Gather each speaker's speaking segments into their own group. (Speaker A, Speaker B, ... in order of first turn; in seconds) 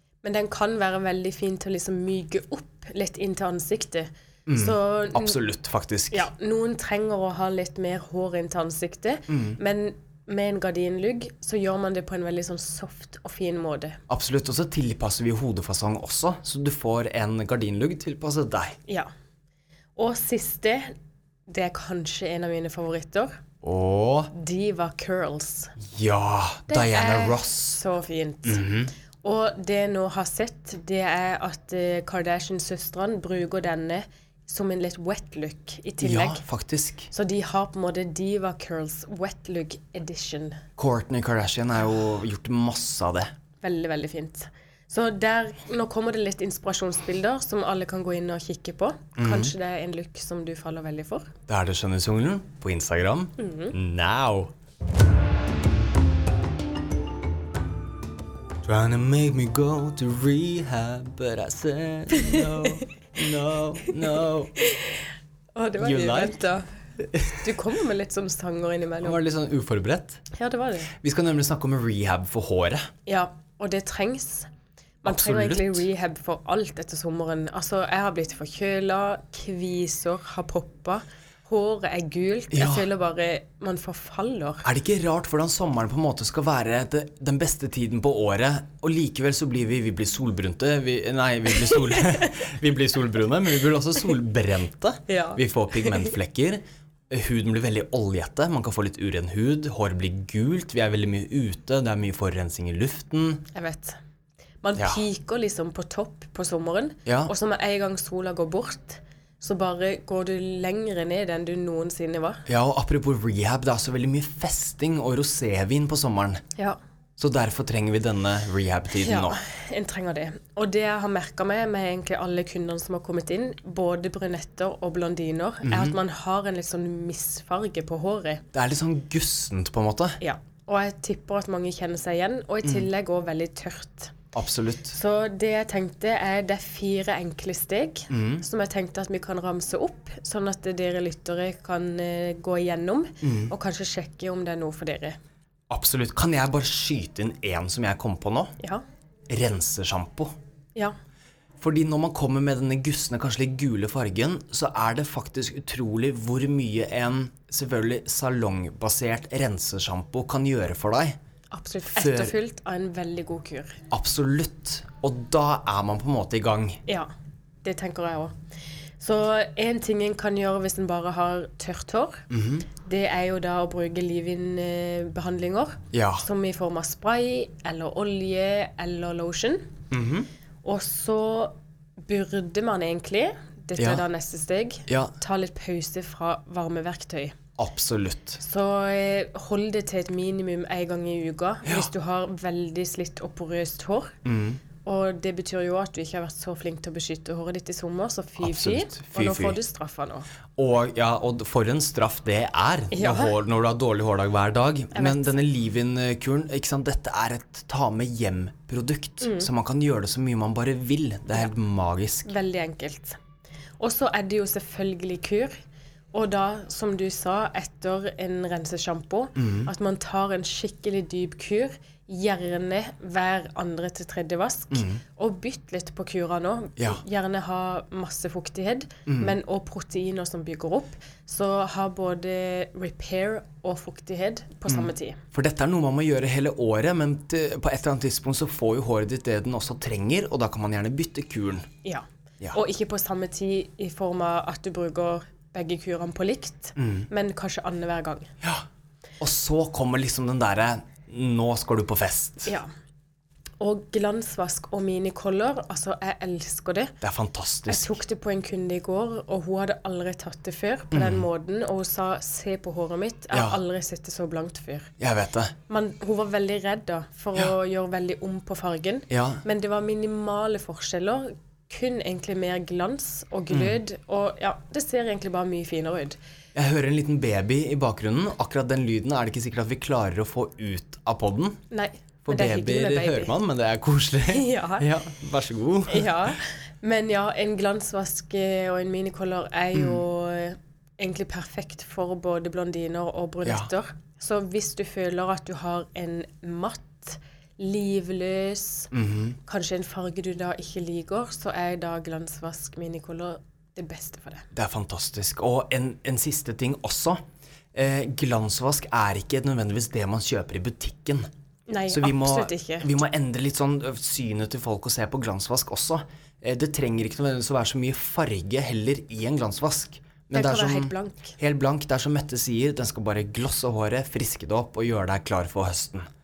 Speaker A: 0.2-5.4, 6.1-14.0, 19.9-20.9, 21.5-23.4, 24.3-25.7, 26.7-28.6, 29.2-36.4, 37.1-40.6, 43.6-51.3, 53.4-53.7, 62.1-62.8, 63.9-66.7, 67.4-69.2, 70.3-70.9, 73.0-74.5, 75.0-84.6, 91.5-92.3, 95.1-96.1, 103.5-104.0, 104.6-112.4, 119.0-128.4, 130.2-134.1, 134.9-145.2, 161.5-163.8, 167.6-168.3, 169.0-172.2, 172.8-179.7, 180.6-187.3, 188.4-194.2, 194.8-200.3, 202.9-203.3, 204.9-205.3, 209.2-209.5, 212.3-213.2, 213.8-215.5, 216.1-235.2, 241.8-248.3, 253.6-257.0, 257.7-264.9, 265.7-276.2, 281.7-283.3, 284.3-284.9, 285.9-298.9, 299.4-304.5, 311.7-312.9, 320.3-321.3
Speaker B: 4.5-6.3, 9.3-9.6, 14.1-18.8, 23.6-24.3, 25.8-27.8, 28.4-28.9, 36.0-37.1, 40.8-43.3, 49.1-49.5, 51.5-54.5, 58.6-64.5, 65.8-66.4, 67.0-67.5, 69.0-70.2, 71.0-72.9, 75.0-75.8, 82.5-82.8, 84.6-103.4, 107.0-107.3, 112.5-116.4, 117.2-119.4, 125.6-126.0, 128.5-130.2, 134.3-135.0, 138.1-138.4, 143.2-143.5, 145.7-148.5, 149.3-150.3, 151.6-161.2, 161.9-162.3, 163.9-166.8, 172.3-172.7, 175.9-176.2, 179.9-180.3, 183.8-184.0, 184.9-185.1, 187.6-188.4, 194.2-194.6, 198.4-199.6, 200.6-212.3, 219.3-219.7, 224.7-225.0, 229.1-229.3, 234.7-241.7, 246.8-247.1, 249.2-252.5, 257.0-258.0, 260.9-261.3, 263.3-263.6, 265.0-265.5, 269.1-269.4, 273.5-273.8, 276.5-281.6, 282.2-286.4, 289.7-290.0, 293.4-293.7, 298.9-299.4, 304.5-307.2, 307.7-311.3, 311.9-326.1